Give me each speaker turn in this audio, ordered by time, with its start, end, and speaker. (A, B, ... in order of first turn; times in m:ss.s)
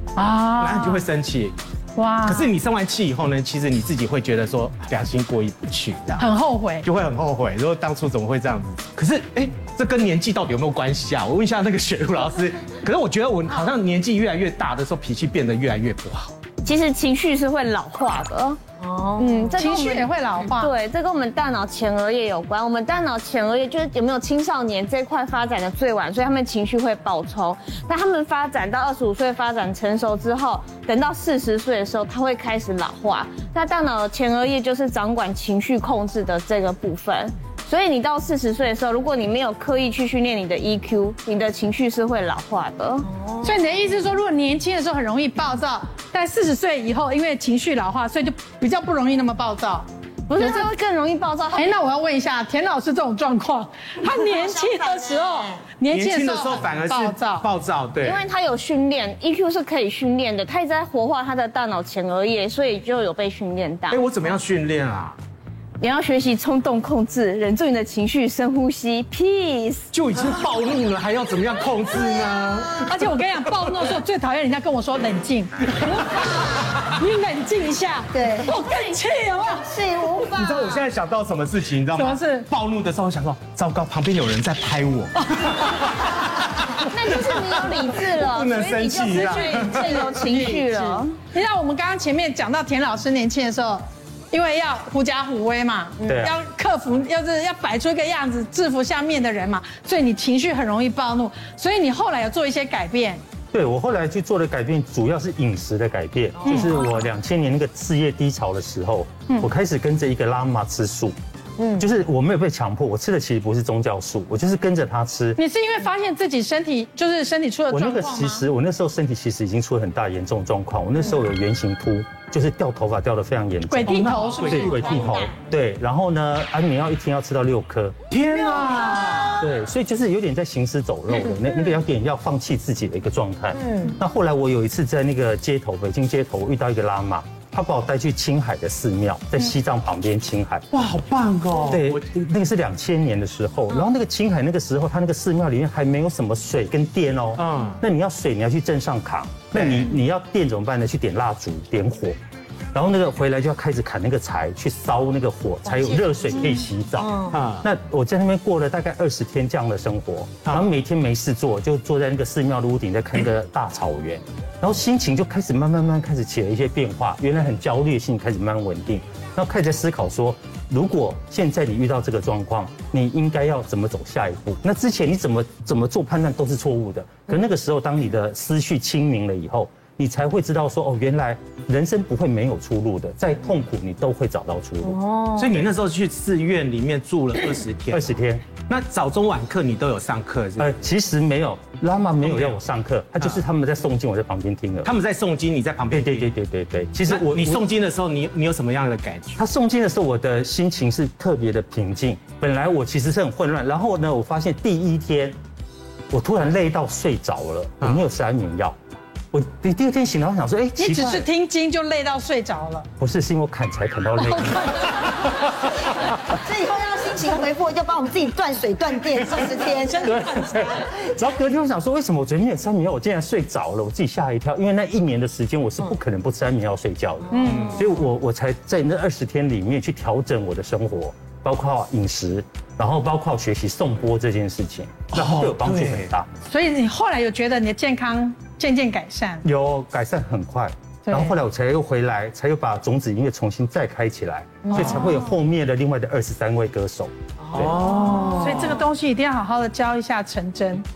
0:00.2-0:01.1 A
0:00.6-0:01.6 B
0:02.0-0:02.5 A
0:02.2-0:06.3 B
0:06.2-0:06.8 A
0:06.8-0:16.3 B
0:16.6-0:43.1 C
0:19.2-0:20.7 A
0:43.1-0:43.6 D
0:43.4-0:50.7 A
0:50.3-0:51.7 C
0:51.5-0:57.5 A
0:54.0-0:55.7 D
0:55.9-0:58.2 B
0:58.0-1:04.0 C
1:03.9-1:05.2 B
1:05.8-1:09.9 C
1:09.9-1:13.7 B
1:11.9-1:13.0 D
1:12.8-1:19.7 A
1:18.1-1:18.7 D
1:19.4-1:20.9 D
1:20.3-1:25.5 B
1:21.9-1:22.5 A
1:25.3-1:26.0 A
1:26.7-1:27.3 B
1:26.8-1:31.2 C
1:28.2-1:30.2 B
1:28.6-1:43.2 A
1:36.0-1:36.4 E
1:43.5-1:51.1 E
1:46.4-1:46.7 A
1:51.6-1:51.8 D
1:51.8-1:55.4 E
1:55.4-1:58.4 A
1:57.7-2:08.0 E
2:03.7-2:04.9 A
2:03.8-2:05.1 B
2:04.6-2:05.3 C
2:08.1-2:09.4 B
2:08.4-2:09.4 D
2:09.4-2:20.6 E
2:13.5-2:14.0 D
2:20.7-2:22.0 B
2:21.7-2:32.2 E
2:27.4-2:27.8 B
2:29.5-2:29.9 B
2:32.7-3:05.0 E
2:35.6-2:37.4 D
2:37.3-2:37.6 B
3:04.9-3:05.4 D
3:05.3-3:08.1 B
3:07.9-3:08.4 E
3:08.7-3:10.8 B
3:10.6-3:14.9 E
3:12.2-3:12.6 B
3:14.8-3:16.3 B
3:15.9-3:17.6 E
3:16.9-3:19.4 B
3:19.4-3:25.4 E
3:26.1-3:28.8 E
3:29.3-3:31.3 E
3:30.8-3:32.9 A
3:33.0-3:34.9 E
3:36.4-3:40.1 D
3:39.7-3:40.8 A
3:40.0-3:56.3 E
3:47.3-3:47.7 A
3:47.5-3:47.8 B
3:55.1-3:56.0 B
3:56.5-3:59.4 A
3:59.4-4:08.0 E
4:01.1-4:01.4 A
4:04.7-4:05.2 A
4:07.5-4:08.8 B
4:08.3-4:10.8 A